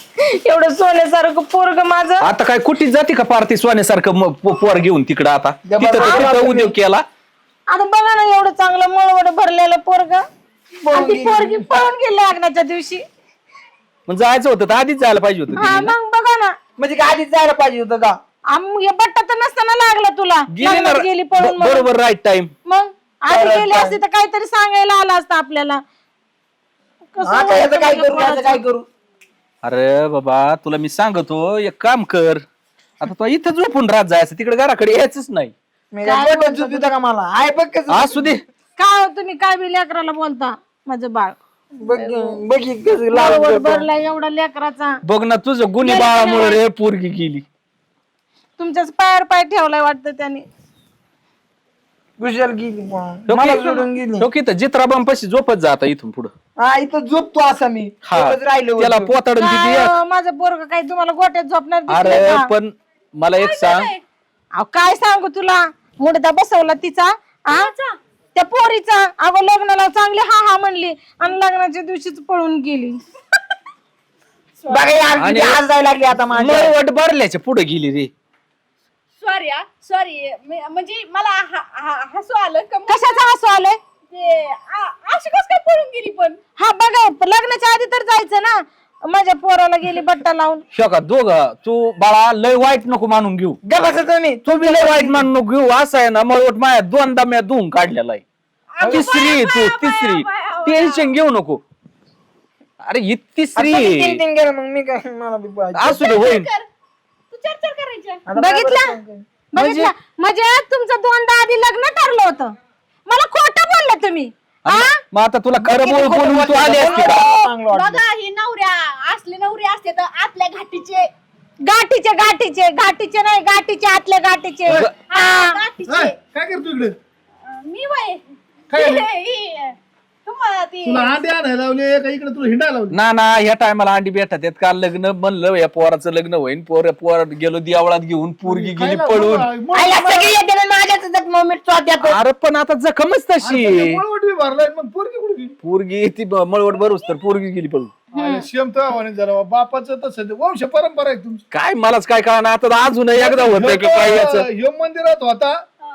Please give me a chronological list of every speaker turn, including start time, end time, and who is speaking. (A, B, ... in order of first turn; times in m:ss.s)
0:00.4-0:02.3 A
0:02.2-0:07.0 B
0:05.6-0:06.7 C
0:07.7-0:10.2 A
0:10.8-0:11.7 C
0:10.9-0:13.0 A
0:14.1-0:15.9 B
0:15.6-0:16.6 A
0:16.8-0:18.2 C
0:18.5-0:21.9 A
0:20.5-0:22.5 B
0:22.6-0:25.8 A
0:23.3-0:24.0 C
0:27.1-0:28.6 A
0:27.2-0:28.8 C
0:29.6-0:32.4 B
0:33.0-0:35.5 B
0:35.9-0:38.3 C
0:36.0-0:36.9 A
0:37.9-0:38.4 B
0:38.8-0:41.4 A
0:41.8-0:43.8 C
0:41.9-0:42.4 A
0:43.1-0:45.0 A
0:45.0-0:47.4 B
0:45.8-0:46.6 A
0:48.6-0:50.4 A
0:52.2-0:54.3 C
0:53.3-0:56.3 B
0:56.6-0:59.1 C
0:58.0-0:59.9 B
0:59.4-1:02.5 A
1:01.9-1:03.9 B
1:03.4-1:04.0 D
1:04.5-1:07.7 A
1:07.5-1:08.0 D
1:08.3-1:13.0 A
1:14.7-1:16.7 C
1:15.2-1:15.6 B
1:16.3-1:18.1 B
1:19.2-1:23.3 D
1:22.9-1:23.8 A
1:24.1-1:26.4 D
1:26.6-1:30.6 A
1:30.7-1:33.6 B
1:33.6-1:35.3 C
1:34.4-1:38.2 B
1:38.7-1:41.2 D
1:38.8-1:41.6 B
1:38.8-1:39.1 C
1:42.8-1:44.2 B
1:43.5-1:46.3 C
1:45.7-1:46.5 B
1:46.0-1:46.6 D
1:47.3-1:48.2 D
1:48.3-1:49.2 C
1:48.4-1:49.0 A
1:49.5-1:52.5 A
1:49.5-1:49.9 B
1:53.1-1:55.0 A
1:54.7-1:57.2 B
1:55.6-1:57.5 A
1:55.9-1:58.0 C
1:57.7-2:01.1 D
2:01.6-2:05.5 A
2:05.1-2:06.2 D
2:05.8-2:06.9 E
2:07.4-2:11.2 D
2:08.7-2:09.1 E
2:10.8-2:13.0 E
2:12.9-2:19.5 B
2:18.4-2:20.4 E
2:19.7-2:22.2 C
2:22.0-2:24.0 B
2:23.4-2:25.6 E
2:25.6-2:28.0 B
2:28.1-2:31.4 E
2:28.1-2:28.4 A
2:31.5-2:34.4 B
2:33.1-2:35.5 E